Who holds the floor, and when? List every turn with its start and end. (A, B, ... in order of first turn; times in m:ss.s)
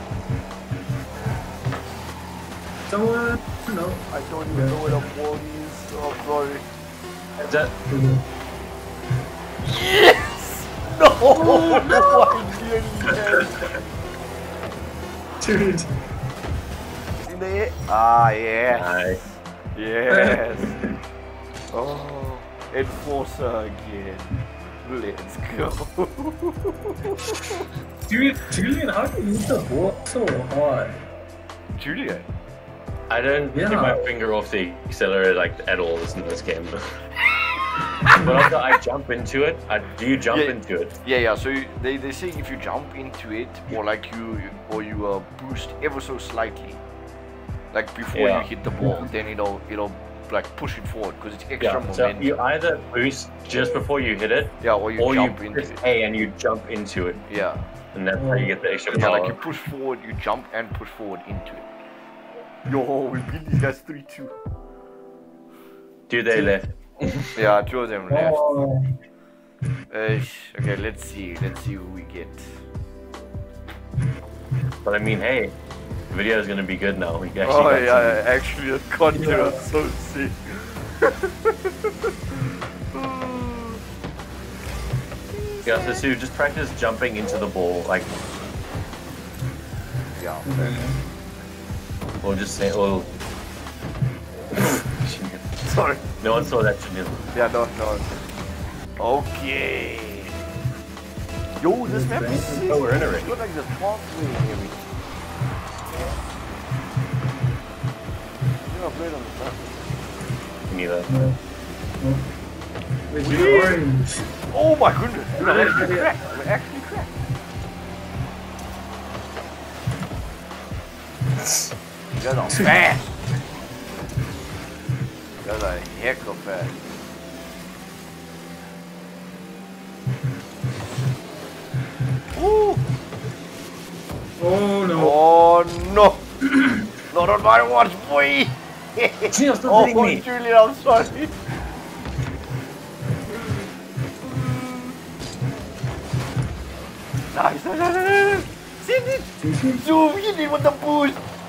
0:02.9-0:05.0 A
0:04.1-0:06.6 B
0:07.4-0:07.7 C
0:07.9-0:08.2 A
0:09.6-0:13.7 B
0:11.3-0:12.3 A
0:15.4-0:15.9 A
0:17.2-0:19.0 B
0:18.7-0:19.2 C
0:19.7-0:20.7 B
0:20.1-0:20.7 A
0:21.7-0:27.6 B
0:28.1-0:31.0 A
0:31.7-0:32.3 B
0:33.1-0:36.7 C
0:33.5-0:34.0 A
0:38.1-0:40.9 C
0:40.3-0:46.8 B
0:47.7-0:52.3 B
0:48.1-0:48.5 C
0:48.8-0:49.1 A
0:51.6-0:57.2 C
0:54.6-0:55.8 B
0:57.3-0:57.6 B
0:57.9-0:59.4 C
0:58.1-0:58.5 A
0:58.9-1:01.6 B
1:02.7-1:04.3 B
1:06.1-1:07.4 C
1:07.3-1:08.6 B
1:08.1-1:08.8 A
1:09.9-1:12.6 B
1:14.8-1:15.5 C
1:16.1-1:18.2 C
1:17.4-1:21.3 B
1:19.1-1:19.6 A
1:22.9-1:23.8 B
1:25.3-1:26.1 B
1:25.6-1:28.1 C
1:30.2-1:30.8 B
1:30.4-1:31.0 A
1:32.2-1:33.1 C
1:34.5-1:35.4 C
1:35.6-1:36.0 B
1:36.2-1:37.2 C
1:37.3-1:38.1 B
1:39.0-1:40.3 B
1:41.6-1:44.8 B
1:41.9-1:42.8 A
1:42.6-1:43.3 C
1:48.6-1:49.7 B
1:50.7-1:51.1 C
1:51.1-1:51.4 A
1:53.1-1:54.2 A
1:53.2-1:53.8 B
1:54.5-1:57.1 B
1:55.4-1:56.2 A
2:02.2-2:03.2 B
2:05.4-2:06.8 B
2:12.3-2:12.8 B
2:14.4-2:15.2 A
2:14.9-2:16.2 B
2:17.1-2:21.4 B
2:19.3-2:20.2 C
2:27.3-2:31.2 B
2:29.4-2:29.8 A